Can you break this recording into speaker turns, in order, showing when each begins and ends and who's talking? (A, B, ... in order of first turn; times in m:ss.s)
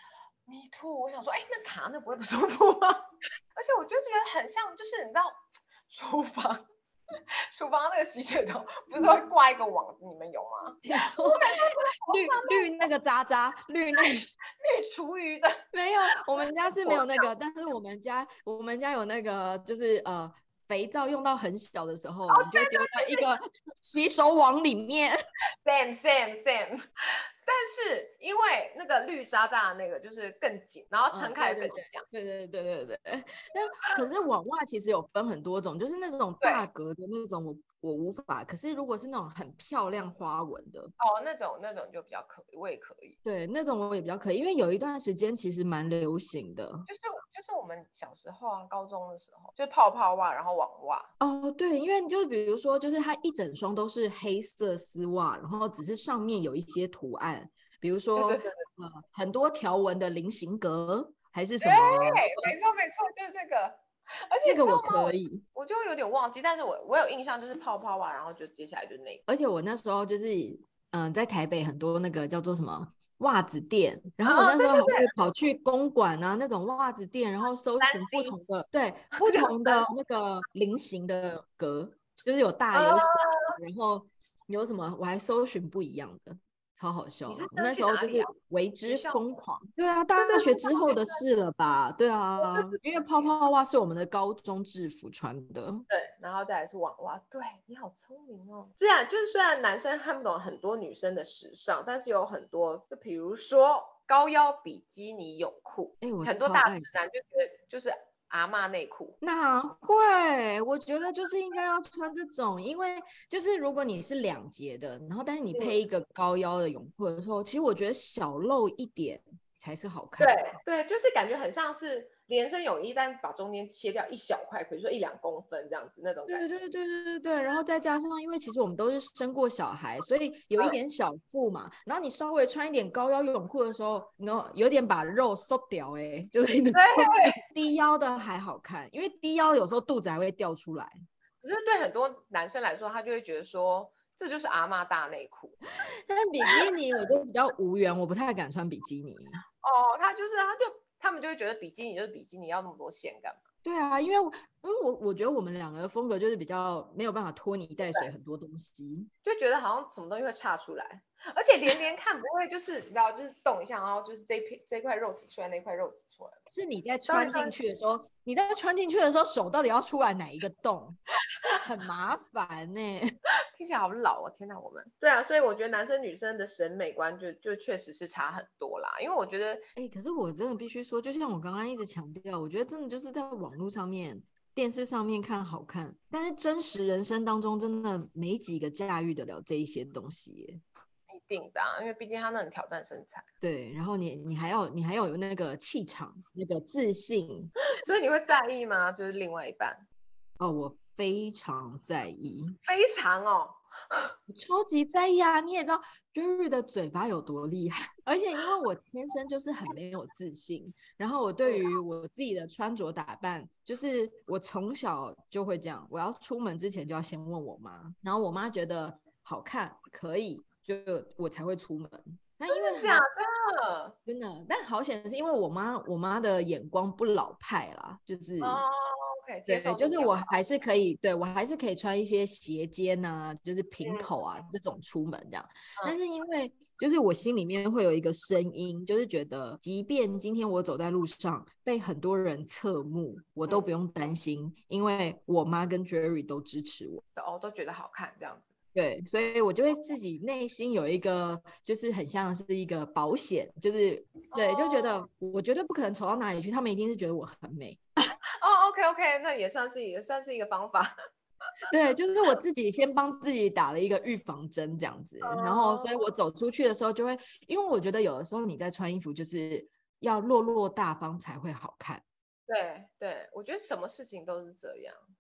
0:00.5-0:05.4 A
0:05.9-0:12.7 A
0:10.8-0:14.3 B
0:14.6-0:15.6 A
0:15.7-0:25.2 B
0:16.3-0:17.3 A
0:22.3-0:23.3 A
0:25.6-0:32.1 A
0:31.1-0:40.9 B
0:36.4-0:36.7 A
0:41.0-0:43.2 A
0:43.2-0:46.9 B
0:46.9-0:51.1 A
0:51.2-1:02.6 B
0:58.2-0:58.6 A
1:01.6-1:09.2 A
1:04.4-1:05.4 B
1:09.3-1:35.8 B
1:14.2-1:15.1 A
1:17.8-1:18.4 A
1:19.2-1:19.9 A
1:22.7-1:23.5 A
1:27.3-1:28.3 A
1:28.9-1:29.2 A
1:30.2-1:31.2 A
1:32.4-1:33.3 A
1:35.9-1:49.2 A
1:46.0-1:46.9 B
1:49.2-2:00.6 B
2:00.2-2:06.5 A
2:06.3-2:21.0 B
2:16.7-2:17.4 A
2:21.4-2:25.6 A
2:26.1-2:29.4 B
2:29.6-2:33.4 A
2:33.6-2:39.1 B
2:37.8-2:38.1 A
2:39.2-2:46.4 A
2:46.5-2:53.2 B
2:47.1-2:47.6 A
2:53.6-2:59.7 A
2:59.8-3:10.6 B
3:11.1-3:13.3 A
3:13.4-3:17.5 B
3:17.8-3:19.9 A
3:20.4-3:22.6 B
3:22.6-3:24.1 A
3:24.3-3:43.0 B
3:31.4-3:31.7 A
3:42.5-3:44.0 A
3:44.1-3:48.6 B
3:48.4-3:50.4 A
3:49.5-4:07.0 B
3:53.8-3:54.1 A
4:07.2-4:08.5 A
4:08.7-4:17.8 B
4:14.3-4:15.0 A
4:18.4-4:21.0 A
4:21.7-4:32.0 B
4:25.2-4:26.0 A
4:32.5-4:35.0 A